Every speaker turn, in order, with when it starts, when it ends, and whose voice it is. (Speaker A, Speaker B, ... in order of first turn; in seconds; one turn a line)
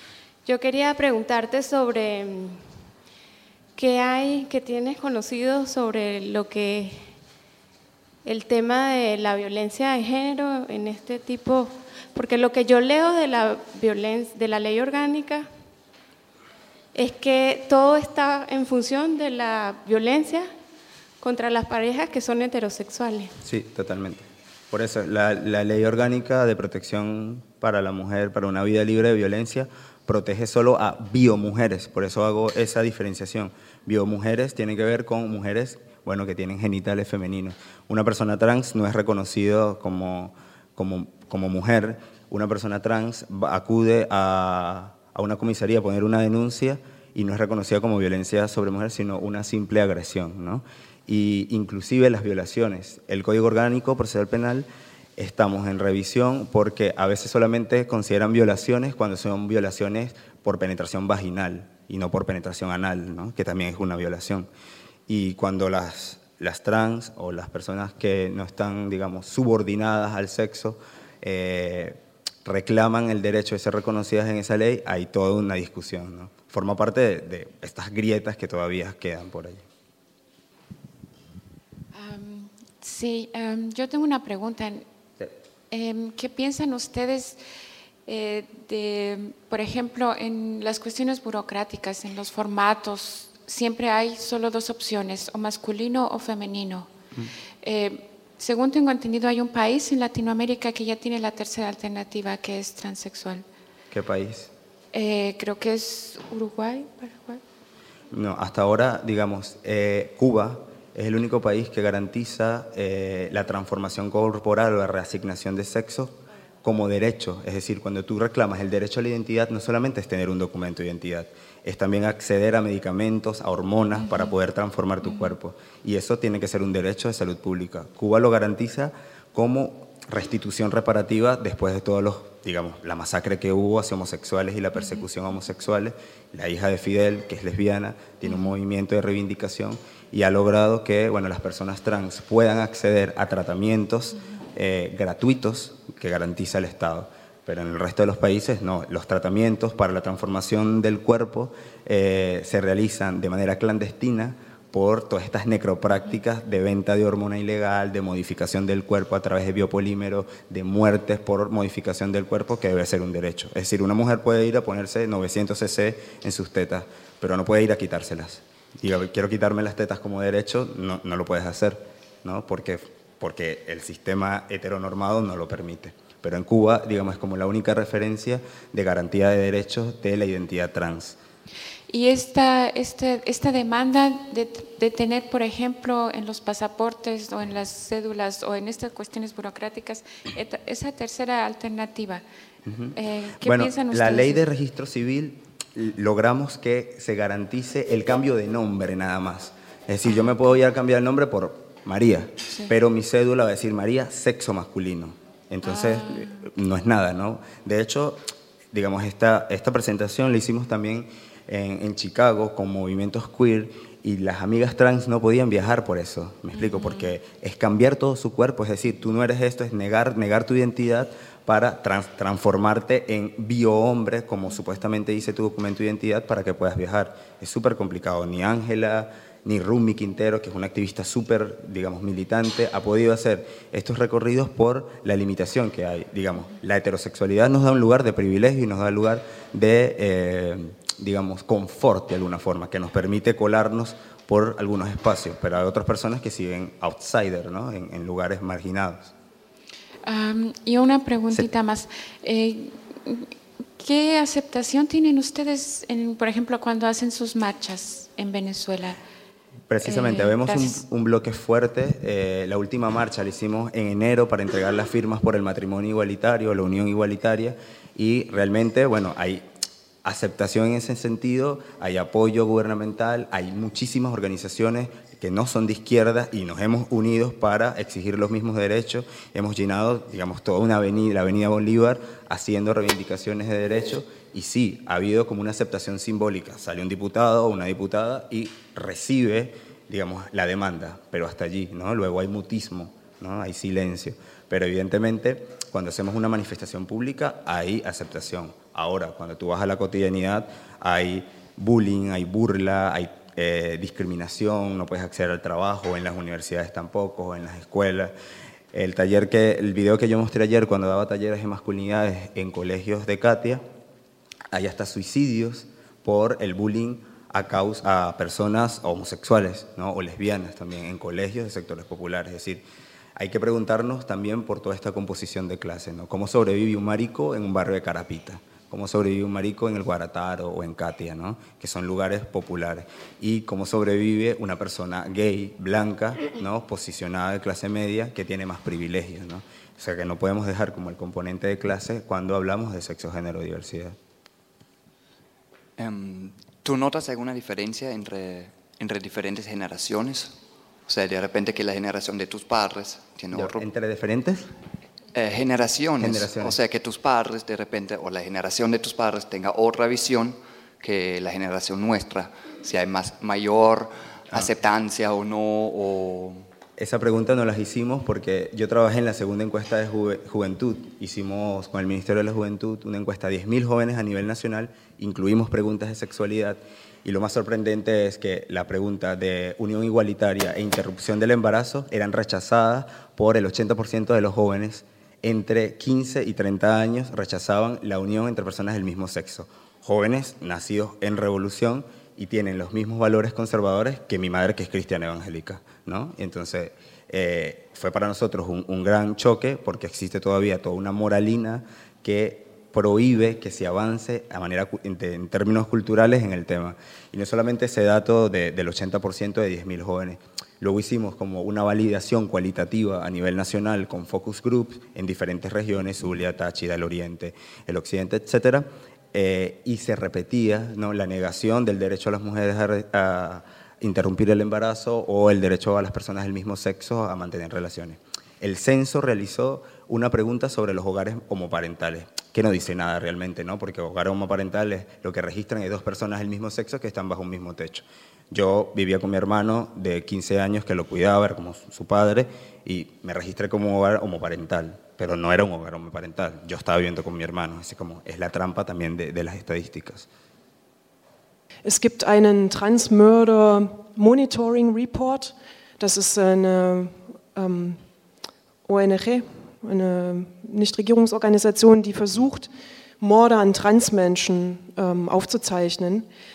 Speaker A: 0.5-2.7
Speaker A: 3.8-7.1
Speaker A: 8.2-15.5
Speaker A: 16.9-20.5
Speaker A: 21.2-23.4
Speaker B: 23.4-64.5
Speaker B: 65.1-79.6
Speaker C: 81.9-84.9
Speaker C: 85.7-87.4
Speaker C: 88.1-96.9
Speaker C: 97.6-103.5
Speaker B: 103.9-104.5
Speaker C: 104.9-107.4
Speaker B: 108.1-181.2
Speaker C: 138.2-138.5
Speaker C: 181.9-192.2
Speaker B: 192.7-208.2
Speaker C: 192.9-194.4
Speaker C: 200.1-200.3
Speaker C: 202.5-202.7
Speaker C: 205.6-206.4
Speaker B: 208.7-249.1
Speaker C: 216.6-217.1
Speaker C: 250.1-259.0
Speaker B: 259.7-269.4
Speaker C: 259.8-260.8
Speaker B: 270.0-308.1
Speaker B: 308.7-313.6
Speaker B: 314.5-322.6
Speaker B: 323.2-344.0
Speaker D: 345.8-353.7
Speaker B: 353.3-354.5
Speaker D: 355.1-366.5
Speaker B: 356.0-356.6
Speaker B: 366.8-450.1
Speaker E: 451.6-457.8
Speaker E: 458.6-462.5
Speaker E: 463.0-466.1